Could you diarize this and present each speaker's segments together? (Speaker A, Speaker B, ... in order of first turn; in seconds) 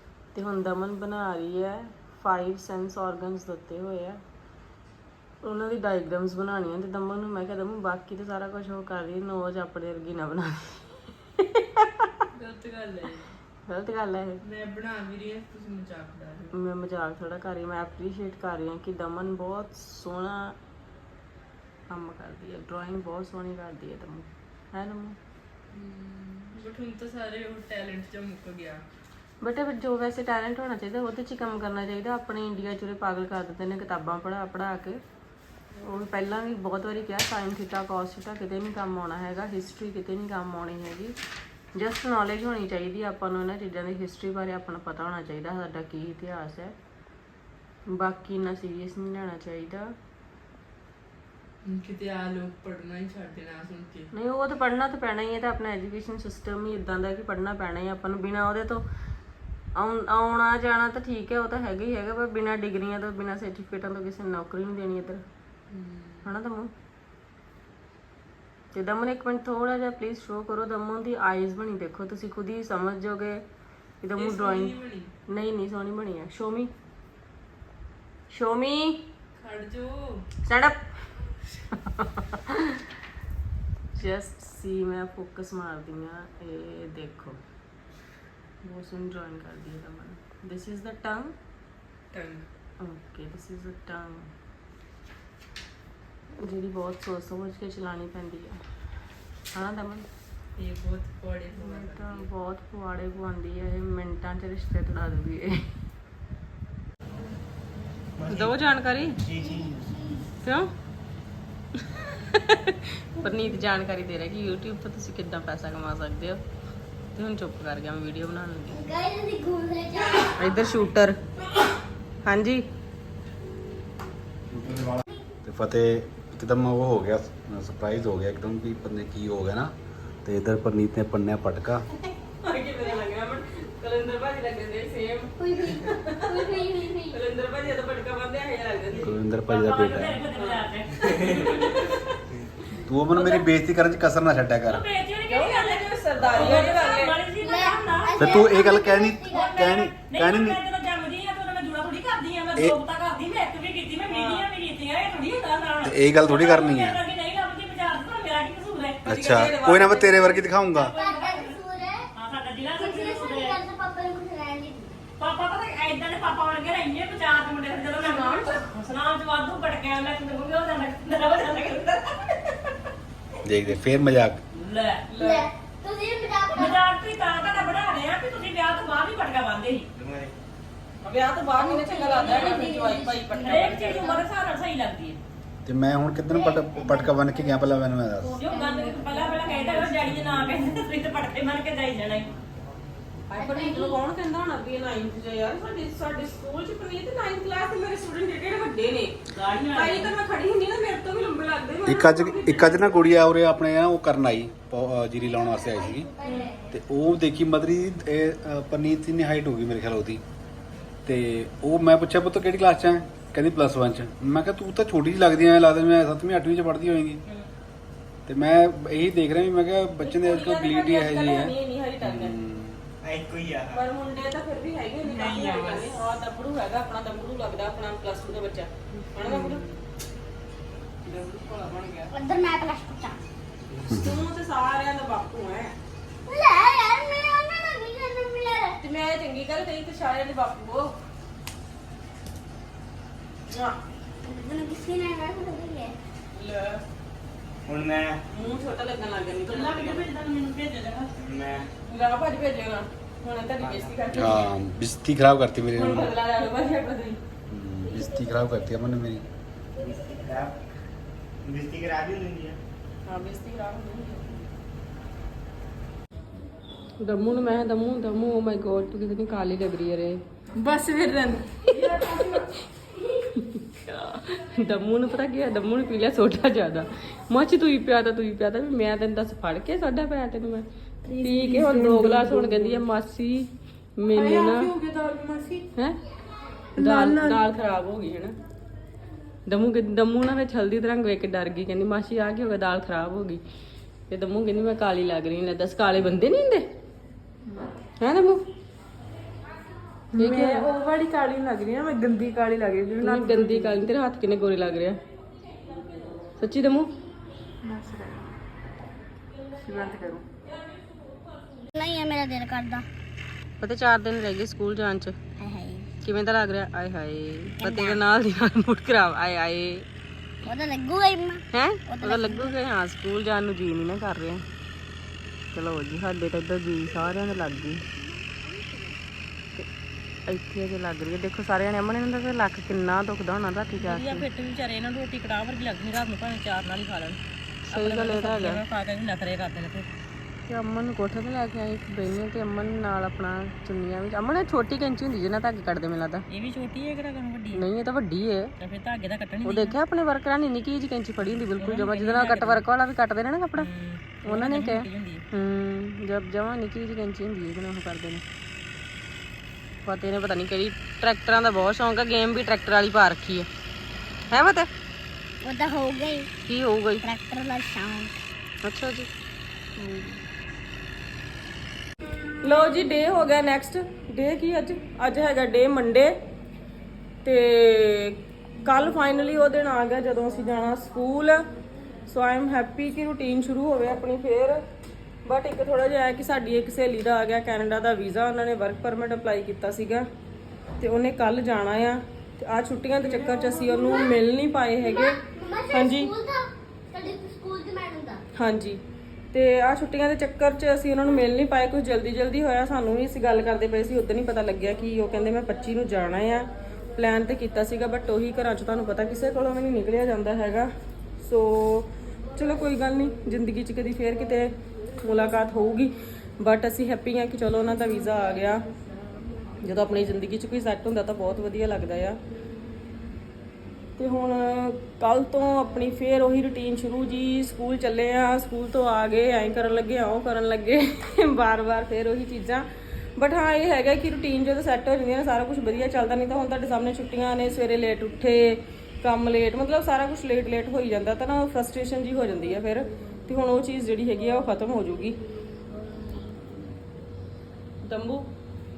Speaker A: 0.3-4.2, 5.4-12.1, 13.7-14.4, 16.5-20.6, 21.9-25.2, 29.4-35.0, 35.8-41.2, 41.8-46.7, 47.9-49.9, 54.1-58.8, 59.8-65.2, 66.2-66.7, 68.7-73.4, 74.0-74.8, 75.3-76.7, 78.3-79.0, 80.5-80.8, 81.7-82.8, 84.0-87.4, 88.6-91.3, 92.8-94.3, 96.4-98.6, 99.5-100.1, 101.5-105.6, 108.3-109.2, 110.4-110.7, 111.8-116.4, 117.2-118.9, 120.4-121.2, 122.2-122.6, 132.4-139.2, 140.4-140.6, 145.3-147.2, 154.1-154.5, 159.1-160.5, 181.0-184.1, 193.3-199.2, 199.7-203.1, 206.2-206.5, 220.0-222.4, 223.7-229.7, 231.1-232.1, 233.9-235.8, 238.8-240.9, 243.5-243.8, 246.3-246.8, 248.3-250.1, 251.9-254.5, 255.7-257.2, 263.1-264.4, 267.0-270.2, 271.8-272.4, 273.4-280.6, 281.2-284.7, 286.8-288.3, 289.5-293.4, 294.1-296.6, 298.0-298.4, 300.2-300.7, 303.0-305.0, 306.4-306.9, 313.6-315.1, 316.0-319.9, 321.5-324.4, 325.5-327.8, 330.3-334.3, 337.7-338.6, 340.5-346.2, 347.5-348.5, 349.4-353.7, 354.2-358.2, 359.9-363.5, 364.3-364.7, 366.5-367.1, 368.6-369.1, 369.8-370.2, 372.4-376.1, 377.2-381.4, 382.1-384.6, 385.3-390.1, 390.8-395.2, 395.7-396.1, 398.4-398.8, 399.3-418.6, 419.6-422.2, 424.0-445.2, 447.8-448.3
Speaker B: 12.3-13.4, 14.4-16.5, 25.7-28.8, 35.8-36.0, 51.6-54.1, 65.7-66.3, 74.2-75.1, 79.4-80.3, 92.1-92.5, 100.6-102.3, 168.2-168.7, 175.1-175.5, 225.1-225.9, 229.3-229.8, 270.6-272.5, 281.1-282.8, 284.1-285.7, 286.8-287.4, 300.1-303.8, 307.6-308.3, 309.6-310.2, 393.0-393.8
Speaker C: 108.2-108.6, 109.2-110.0, 180.0-180.3, 223.0-223.8, 247.7-248.2, 251.2-251.7, 253.6-254.2, 259.8-260.6, 261.4-262.6
Speaker D: 109.4-110.2, 118.7-120.7, 135.4-137.2, 147.4-149.5, 161.0-162.1, 162.8-165.0, 175.2-176.8, 181.6-184.2, 186.5-187.4, 188.5-189.7, 193.4-193.9, 205.5-206.7, 232.1-233.2, 236.3-238.8, 244.2-245.9, 311.8-312.9, 315.4-315.9, 317.6-318.0, 320.5-322.5, 365.4-366.3, 367.0-368.1, 393.8-394.2, 394.8-398.2
Speaker E: 125.5-129.7, 130.2-131.8, 139.0-140.2, 142.9-144.9, 148.2-150.6, 155.8-157.0, 159.1-160.9, 173.4-174.4, 185.7-188.3, 201.9-206.1, 206.7-210.2, 211.1-217.2, 218.3-222.8, 254.2-256.1, 257.5-259.2
Speaker F: 139.4-141.9, 143.1-143.5, 144.7-148.3, 149.3-159.0, 160.7-161.6, 162.1-163.6, 165.2-172.0, 174.5-175.1, 176.5-179.9, 182.1-182.7, 183.3-185.2, 188.3-192.3, 199.3-200.1, 249.4-251.1, 333.8-339.9, 346.3-347.6, 348.6-349.7, 351.6-352.6, 353.6-355.2